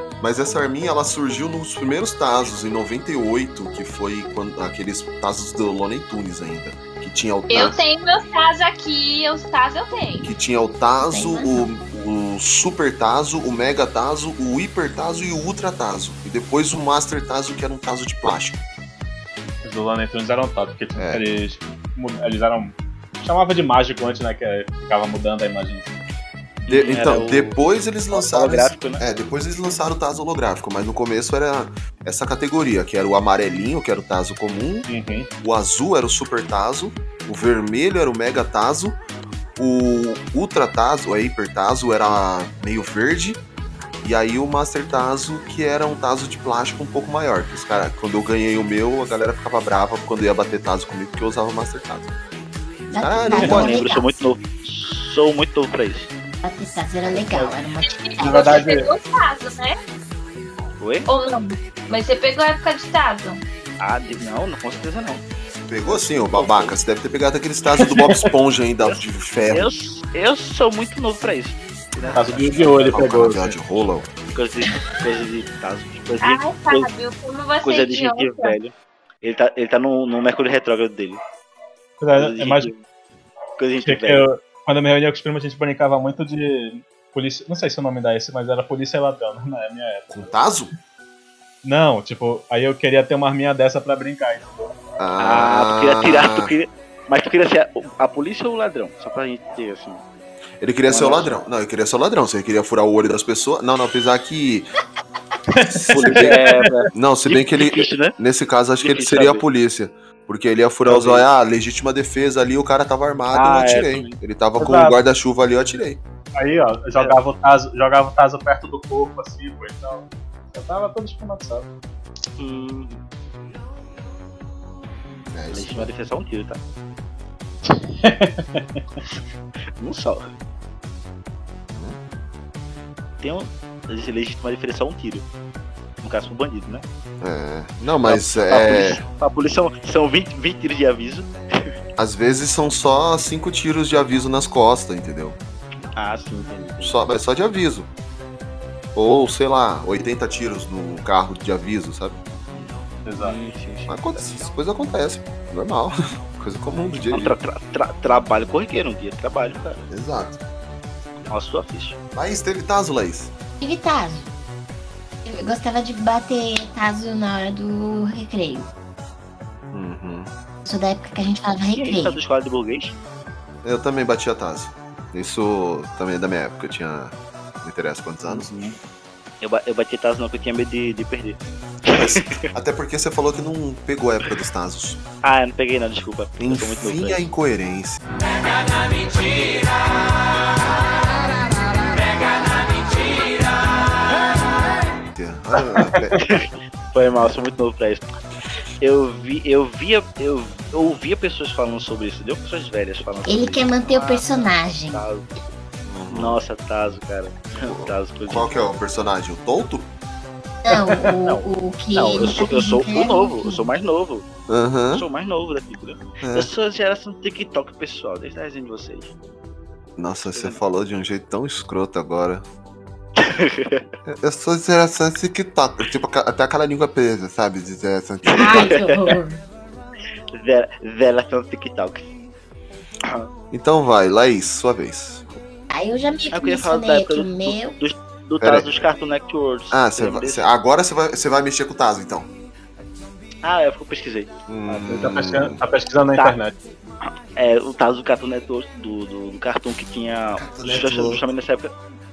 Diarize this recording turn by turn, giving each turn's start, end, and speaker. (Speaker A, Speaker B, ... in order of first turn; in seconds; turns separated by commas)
Speaker A: 0.2-7.8, Speaker B: 7.5-10.3, Speaker A: 10.2-18.6, Speaker C: 11.1-11.7, Speaker D: 19.6-26.0, Speaker A: 21.0-21.2, Speaker E: 26.6-27.6, Speaker A: 26.7-34.9, Speaker E: 28.1-29.0, Speaker D: 34.9-35.3, Speaker A: 35.4-39.0, Speaker A: 39.6-43.4, Speaker A: 44.0-52.1, Speaker C: 52.9-54.2, Speaker A: 53.0-53.8, Speaker E: 53.3-56.1, Speaker C: 56.4-58.6, Speaker D: 57.2-57.5, Speaker B: 57.9-59.8, Speaker D: 58.2-58.9, Speaker E: 60.8-61.1, Speaker B: 61.0-63.4, Speaker E: 63.8-65.2, Speaker A: 65.6-69.7, Speaker E: 65.8-66.8, Speaker D: 67.8-68.3, Speaker E: 68.8-73.0, Speaker D: 72.1-73.5, Speaker A: 72.4-74.1, Speaker E: 74.3-76.9, Speaker B: 76.2-78.5, Speaker E: 77.6-81.2, Speaker D: 82.0-82.7, Speaker E: 82.1-82.8, Speaker E: 83.6-84.3, Speaker D: 83.8-90.3, Speaker A: 90.1-90.7, Speaker D: 91.6-94.7, Speaker A: 95.0-96.5, Speaker E: 95.2-100.0, Speaker A: 100.6-104.7, Speaker E: 100.9-101.4, Speaker D: 105.5-106.8, Speaker A: 105.7-106.3, Speaker E: 105.9-108.1, Speaker A: 106.9-116.0, Speaker E: 108.8-109.4, Speaker E: 110.8-111.3, Speaker E: 113.3-114.2, Speaker D: 114.6-115.0, Speaker D: 116.4-121.7, Speaker E: 122.4-123.0, Speaker A: 125.3-125.9, Speaker E: 125.5-126.6, Speaker D: 127.7-128.8, Speaker E: 129.8-130.3, Speaker E: 133.2-135.2, Speaker E: 136.0-136.8, Speaker A: 137.2-139.0, Speaker E: 138.1-141.3, Speaker A: 142.0-145.4, Speaker E: 145.9-147.1, Speaker A: 146.8-147.9, Speaker A: 148.9-152.2, Speaker E: 152.5-154.4, Speaker D: 153.1-153.4, Speaker A: 153.9-157.4, Speaker E: 157.1-159.8, Speaker A: 159.9-160.4, Speaker E: 161.3-162.0, Speaker A: 162.1-163.3, Speaker C: 163.6-164.3, Speaker C: 165.2-168.7, Speaker A: 169.7-170.3, Speaker C: 170.6-172.2, Speaker E: 171.7-172.9, Speaker A: 173.6-178.5, Speaker D: 178.3-178.7, Speaker E: 179.4-182.4, Speaker A: 181.9-185.0, Speaker E: 185.2-187.2, Speaker A: 186.4-188.0, Speaker A: 195.1-196.2, Speaker E: 196.2-198.0, Speaker E: 198.8-205.3, Speaker C: 203.3-205.0, Speaker A: 205.8-206.4, Speaker E: 206.1-208.7, Speaker A: 207.6-209.9, Speaker C: 210.6-213.7, Speaker E: 211.2-214.2, Speaker A: 214.5-215.0, Speaker E: 214.9-219.1, Speaker A: 216.2-216.5, Speaker A: 220.0-222.4, Speaker E: 220.3-220.6, Speaker E: 223.2-223.9, Speaker A: 224.0-228.7, Speaker E: 228.2-229.1, Speaker C: 228.3-229.4, Speaker E: 230.3-232.1, Speaker A: 233.5-235.3, Speaker C: 235.7-237.8, Speaker E: 236.3-240.4, Speaker A: 238.4-238.8, Speaker A: 239.7-242.3, Speaker E: 243.4-244.9, Speaker A: 244.5-245.6, Speaker D: 244.9-246.5, Speaker E: 247.3-251.7, Speaker A: 250.3-251.2